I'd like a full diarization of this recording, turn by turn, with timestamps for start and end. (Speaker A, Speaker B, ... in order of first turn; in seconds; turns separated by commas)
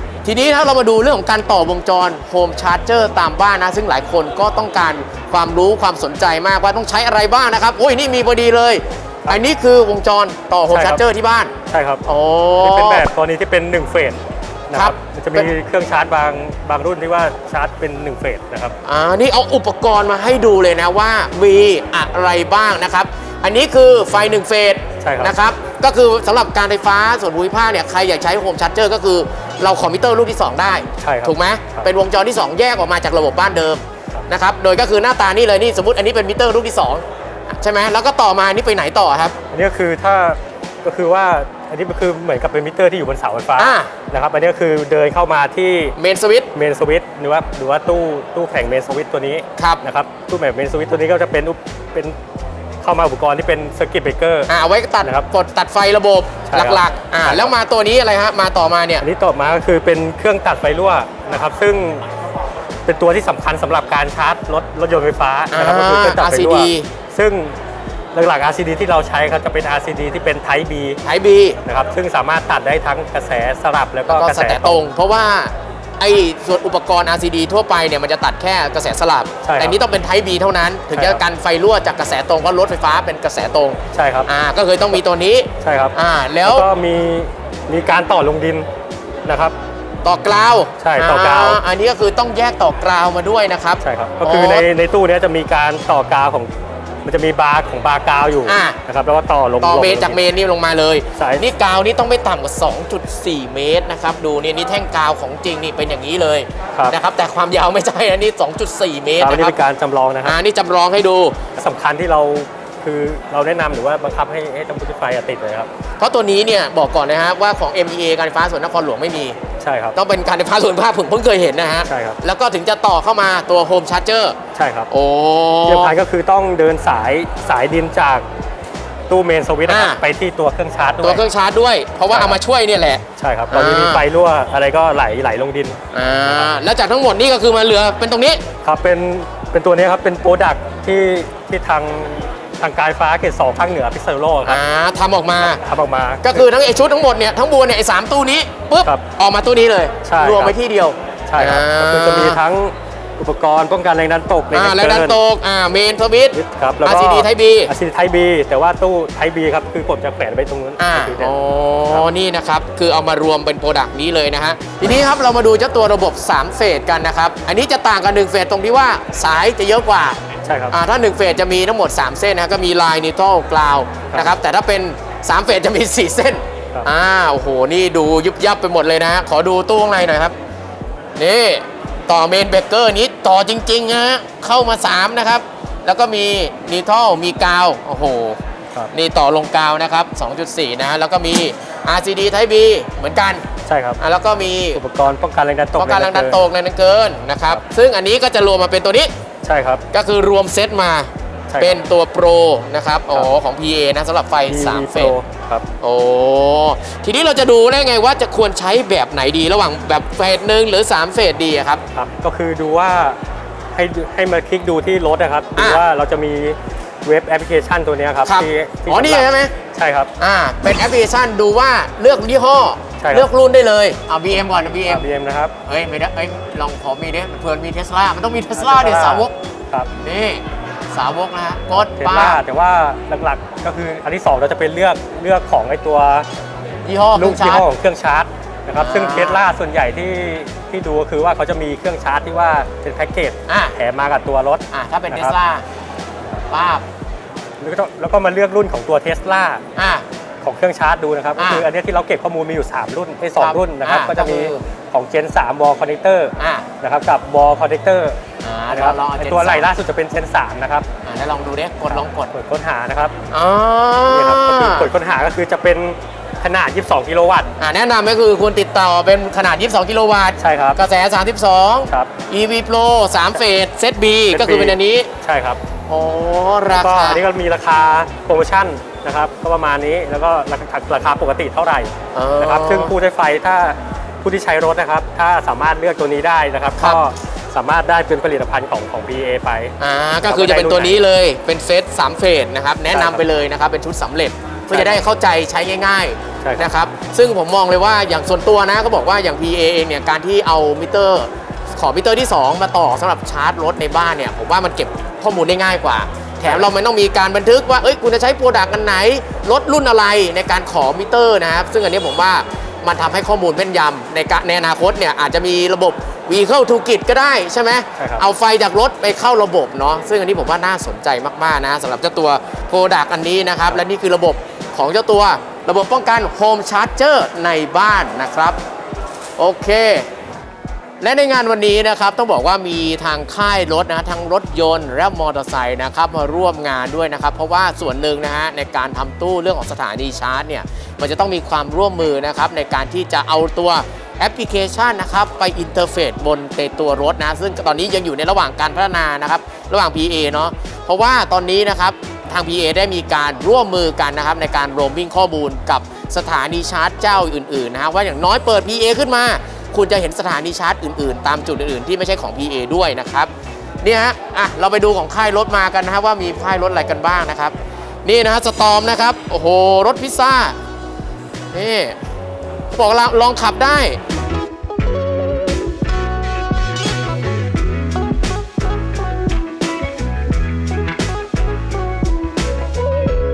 Speaker A: 0.2-11.5, Speaker B: 10.7-11.0, Speaker B: 11.7-12.0, Speaker A: 12.0-13.0, Speaker B: 12.6-18.7, Speaker A: 14.7-15.5, Speaker A: 18.8-39.4, Speaker B: 25.0-25.4, Speaker B: 31.0-31.8, Speaker B: 39.5-45.9, Speaker A: 43.6-43.9, Speaker A: 46.0-46.5, Speaker B: 46.5-52.1, Speaker A: 49.6-49.8, Speaker B: 52.8-54.5, Speaker A: 54.5-59.0, Speaker B: 56.5-57.5, Speaker B: 59.0-62.0, Speaker B: 62.8-67.5, Speaker A: 65.5-66.9, Speaker B: 68.1-71.0, Speaker A: 71.0-71.6, Speaker B: 71.6-74.8, Speaker A: 74.1-86.7, Speaker B: 79.4-79.8, Speaker B: 80.9-81.2, Speaker B: 83.9-84.3, Speaker B: 85.6-88.7, Speaker B: 89.2-89.5, Speaker A: 90.0-94.6, Speaker B: 90.8-91.6, Speaker B: 93.8-96.5, Speaker B: 97.0-100.2, Speaker A: 98.4-98.8, Speaker A: 99.6-109.5, Speaker B: 101.2-101.4, Speaker B: 109.2-110.4, Speaker A: 110.2-111.4, Speaker B: 111.5-115.7, Speaker A: 116.0-119.4, Speaker B: 119.6-119.9, Speaker A: 119.9-124.4, Speaker B: 121.9-122.2, Speaker B: 124.5-124.9, Speaker A: 124.9-125.9, Speaker B: 125.7-128.2, Speaker B: 129.1-131.2, Speaker A: 129.7-130.0, Speaker A: 131.0-134.1, Speaker B: 132.1-132.4, Speaker B: 133.2-136.5, Speaker A: 135.9-138.4, Speaker B: 138.6-144.6, Speaker A: 144.4-145.6, Speaker B: 145.4-146.5, Speaker A: 146.2-152.4, Speaker B: 150.0-150.5, Speaker B: 151.3-155.2, Speaker A: 154.5-157.7, Speaker B: 156.3-161.3, Speaker A: 160.8-170.2, Speaker B: 170.4-170.7, Speaker A: 170.7-180.3, Speaker A: 181.2-188.4, Speaker A: 188.9-193.4, Speaker B: 193.7-194.0, Speaker A: 194.0-194.8, Speaker B: 194.7-196.4, Speaker A: 195.8-199.1, Speaker B: 199.4-199.8, Speaker A: 199.9-205.2, Speaker B: 201.5-201.8, Speaker B: 204.5-205.7, Speaker A: 205.8-211.8, Speaker B: 211.9-213.2, Speaker B: 213.7-220.1, Speaker A: 215.6-215.8, Speaker A: 218.2-219.5, Speaker A: 220.2-225.1, Speaker B: 223.0-223.3, Speaker B: 224.7-225.5, Speaker A: 225.6-229.3, Speaker B: 228.5-229.9, Speaker A: 230.0-232.4, Speaker B: 231.7-236.3, Speaker A: 236.8-237.7, Speaker B: 237.2-245.3, Speaker A: 238.8-239.4, Speaker A: 243.5-243.7, Speaker A: 244.7-245.6, Speaker A: 246.5-246.8, Speaker B: 247.6-249.6, Speaker A: 249.8-250.0, Speaker B: 250.4-258.2, Speaker A: 251.4-251.7, Speaker A: 253.3-254.6, Speaker A: 256.4-256.7, Speaker A: 258.4-259.7, Speaker B: 258.7-260.9, Speaker A: 261.0-262.3, Speaker B: 261.9-263.1, Speaker A: 263.3-264.9, Speaker B: 264.0-267.5, Speaker A: 267.6-275.1, Speaker B: 270.4-270.8, Speaker B: 274.3-275.6, Speaker A: 275.9-277.2, Speaker B: 276.7-289.7, Speaker A: 282.1-282.9, Speaker A: 286.7-287.0, Speaker A: 289.8-328.6, Speaker B: 290.2-290.9, Speaker B: 292.9-293.2, Speaker B: 294.7-295.0, Speaker B: 296.4-296.7, Speaker B: 318.0-318.2, Speaker A: 329.4-330.1, Speaker A: 331.0-363.3, Speaker A: 363.8-367.5, Speaker A: 368.0-370.6, Speaker A: 371.5-372.0, Speaker A: 372.7-374.0